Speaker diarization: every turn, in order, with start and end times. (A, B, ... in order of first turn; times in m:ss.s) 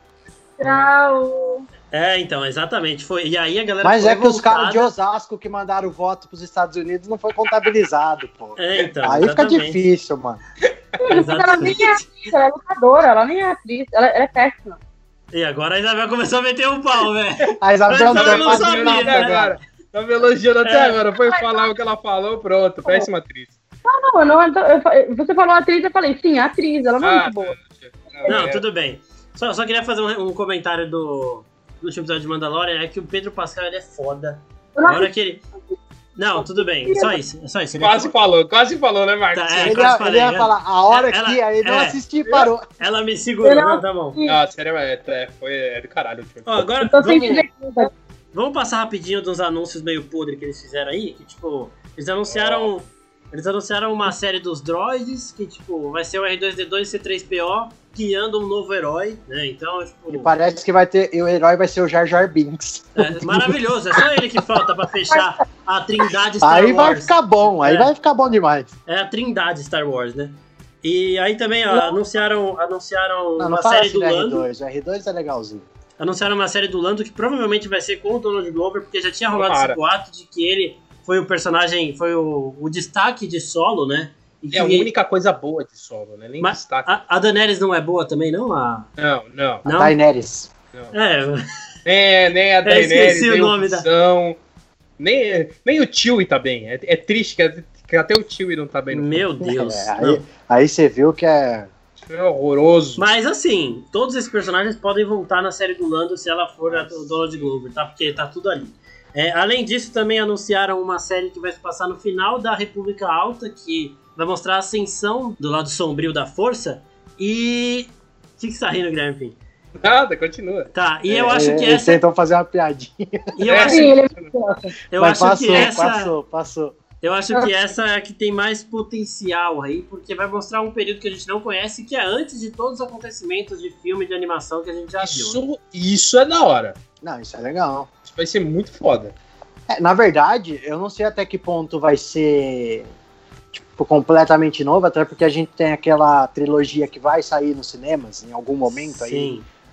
0:00.6-0:01.7 A
0:01.9-0:04.9 B
0:03.8-0:10.4 C
0:08.6-0:09.8 B
0:10.6-0:11.0 D
0:11.0-0:14.8 A
0:11.1-0:12.0 B
0:15.3-0:19.5 B
0:17.6-0:19.6 C
0:18.0-0:23.5 D
0:20.6-0:21.0 B
0:21.2-0:21.7 A
0:23.8-0:27.6 A
0:27.0-0:28.6 D
0:28.3-0:35.4 B
0:34.8-0:35.1 A
0:36.2-0:38.1 B
0:36.4-0:37.2 A
0:37.8-0:39.9 D
0:39.3-0:44.2 B
0:39.6-0:42.7 C
0:43.4-0:44.4 A
0:44.2-0:46.7 D
0:46.4-0:47.5 B
0:46.8-0:47.9 A
0:48.3-1:00.3 B
0:52.3-0:52.7 D
1:00.1-1:03.6 C
1:03.0-1:07.9 B
1:06.4-1:08.7 C
1:08.9-1:14.5 B
1:11.7-1:12.0 A
1:13.4-1:15.7 C
1:16.0-1:24.9 B
1:19.3-1:19.8 D
1:24.5-1:26.9 D
1:26.4-1:28.9 B
1:29.0-1:29.7 D
1:29.6-1:30.0 B
1:29.7-1:30.5 C
1:30.9-1:31.4 B
1:31.8-1:34.4 D
1:32.6-1:33.9 B
1:35.0-1:39.3 D
1:38.9-1:40.2 B
1:39.4-1:41.7 C
1:42.0-1:43.0 D
1:43.0-1:59.4 B
1:46.7-1:47.5 D
1:59.8-2:00.7 D
2:00.7-2:02.0 B
2:01.1-2:03.4 C
2:03.4-2:03.9 B
2:03.4-2:04.3 D
2:03.6-2:04.8 A
2:04.9-2:06.1 B
2:05.0-2:06.8 C
2:07.0-2:15.4 B
2:15.0-2:16.8 D
2:17.0-2:17.9 C
2:18.0-2:19.2 D
2:19.7-2:22.9 C
2:23.5-2:29.3 C
2:29.0-2:29.5 B